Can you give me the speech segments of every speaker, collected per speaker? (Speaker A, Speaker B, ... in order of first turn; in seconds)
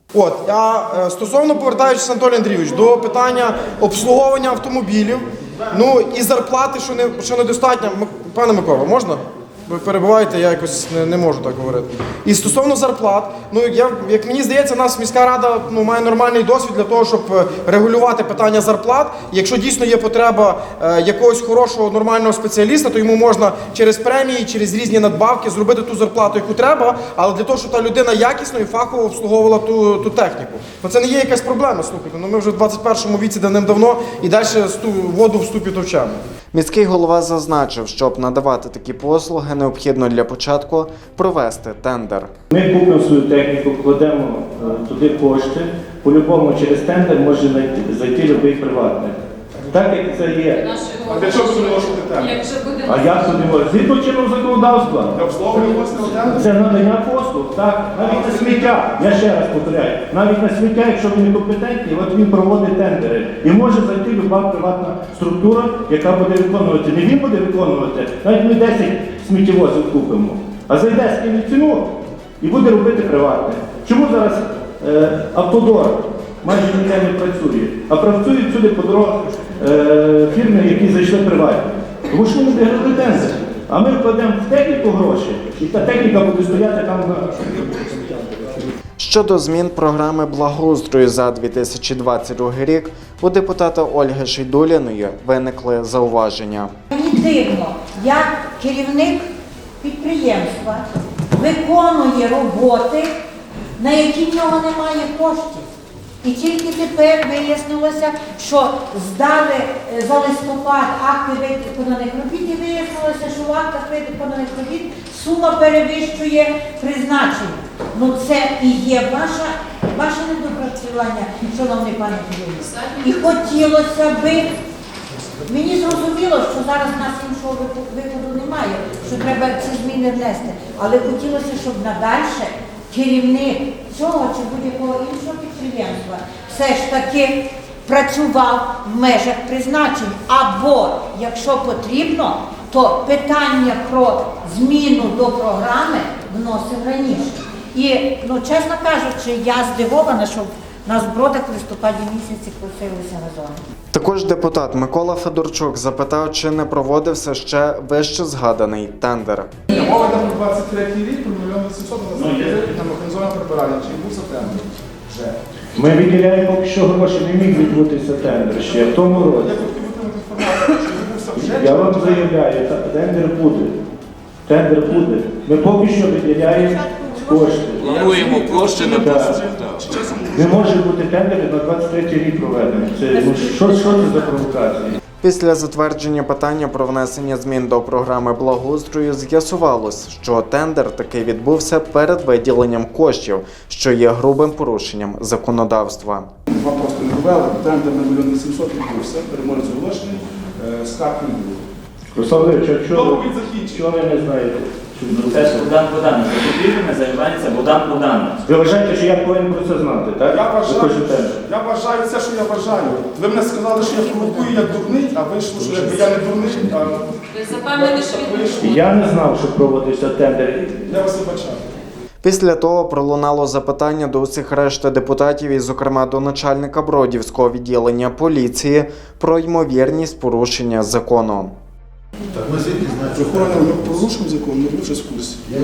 Speaker A: 0.1-36.2
Speaker B: 36.5-42.3, 89.0-96.7, 153.9-159.5, 185.2-196.3, 222.2-231.5
Speaker C: 42.5-50.6, 52.8-88.7, 165.7-169.5, 171.3-173.8, 174.4-179.4, 180.3-185.0, 202.1-205.7, 208.4-211.4, 218.6-220.8
Speaker D: 50.6-53.2, 217.3-218.7
Speaker E: 51.1-52.4, 55.1-56.5, 58.0-59.0, 159.7-165.4, 168.8-172.3, 177.8-180.7, 196.5-201.6, 202.9-203.8, 210.3-217.1, 217.7-219.0, 220.8-221.6, 233.1-235.4
Speaker F: 96.9-99.2, 99.8-103.1, 103.8-105.7, 106.2-124.5, 125.4-153.6
Speaker G: 162.2-162.5, 205.1-208.3